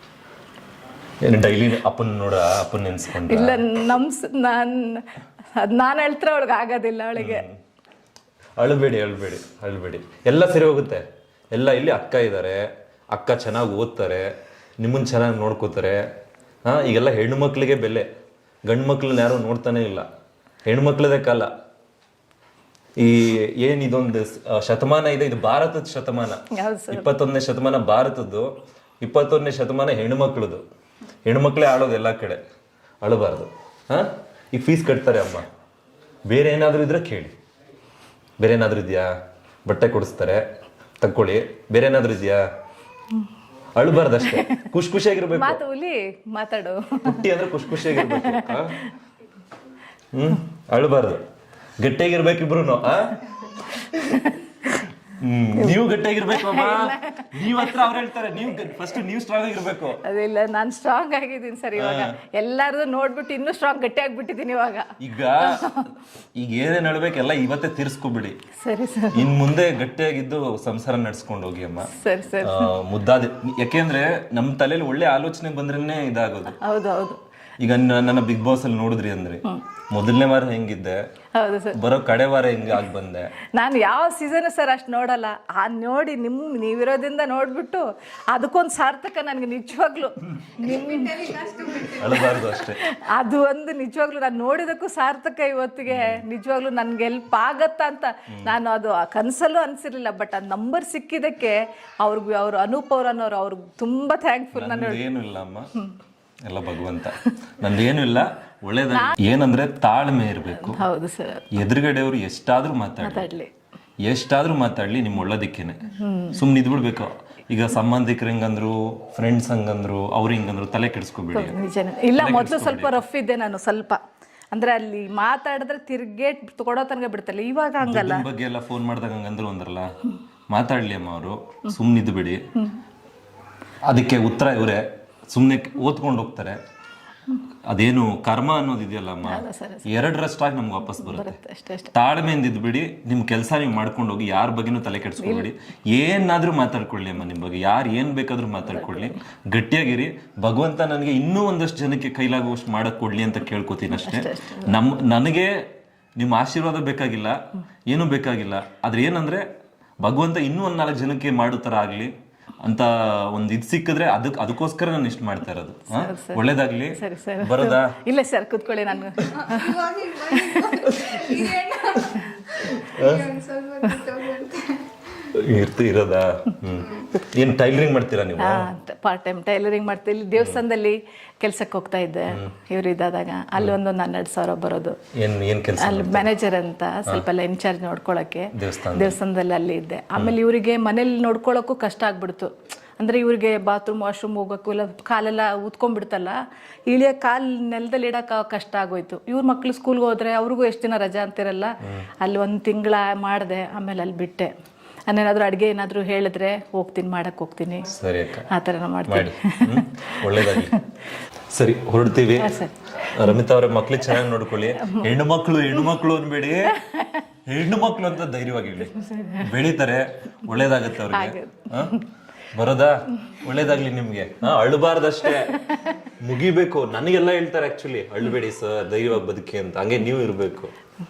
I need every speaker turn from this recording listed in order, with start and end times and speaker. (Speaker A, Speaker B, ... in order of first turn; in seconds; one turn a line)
Speaker A: 1.2-3.6
Speaker B: 3.2-7.5
Speaker A: 7.2-7.6
Speaker A: 8.6-16.1
Speaker A: 16.6-18.1
Speaker A: 18.7-20.1
Speaker A: 20.6-21.5
Speaker A: 23.0-30.6
Speaker B: 26.5-27.1
Speaker A: 31.2-32.4
Speaker A: 33.0-35.5
Speaker A: 36.3-37.4
Speaker A: 38.4-39.1
Speaker A: 39.6-40.4
Speaker A: 41.0-42.4
Speaker A: 43.8-45.6
Speaker B: 45.3-48.9
Speaker A: 47.0-48.9
Speaker A: 50.1-51.2
Speaker A: 51.8-54.3
Speaker B: 54.0-54.4
Speaker A: 55.1-60.0
Speaker B: 56.3-58.0
Speaker B: 60.0-65.8
Speaker A: 61.8-62.1
Speaker A: 65.0-68.4
Speaker B: 68.6-69.4
Speaker A: 69.1-76.6
Speaker B: 71.9-72.7
Speaker B: 76.6-77.2
Speaker A: 77.6-81.0
Speaker B: 81.3-81.8
Speaker A: 81.7-83.3
Speaker B: 83.6-91.4
Speaker C: 90.5-92.6
Speaker A: 91.8-92.8
Speaker B: 92.8-105.0
Speaker A: 95.9-96.2
Speaker A: 104.5-105.7
Speaker A: 106.4-110.8
Speaker B: 108.9-109.2
Speaker B: 110.6-111.5
Speaker A: 111.5-113.3
Speaker B: 113.0-113.5
Speaker A: 114.0-121.5
Speaker B: 116.0-116.4
Speaker B: 121.3-124.0
Speaker A: 122.2-123.0
Speaker B: 124.5-128.2
Speaker A: 127.8-129.9
Speaker A: 130.5-132.4
Speaker A: 133.8-136.6
Speaker A: 137.6-141.4
Speaker B: 139.2-139.9
Speaker B: 140.9-141.9
Speaker A: 141.9-159.4
Speaker B: 145.2-145.5
Speaker B: 148.6-149.2
Speaker B: 153.9-154.7
Speaker A: 160.0-168.0
Speaker B: 165.9-171.5
Speaker C: 169.2-175.3
Speaker A: 170.9-171.2
Speaker A: 172.0-173.2
Speaker A: 175.3-178.7
Speaker C: 176.7-177.2
Speaker B: 178.4-185.0
Speaker A: 185.1-186.3
Speaker B: 185.8-196.3
Speaker A: 188.5-189.2
Speaker B: 196.9-204.5
Speaker B: 205.1-207.9
Speaker A: 207.8-208.5
Speaker B: 208.5-210.8
Speaker A: 209.1-210.8
Speaker A: 211.5-216.8
Speaker B: 212.3-213.3
Speaker B: 214.8-215.1
Speaker B: 216.7-217.2
Speaker A: 217.4-230.7
Speaker B: 218.9-219.5
Speaker B: 221.1-222.0
Speaker B: 225.5-225.8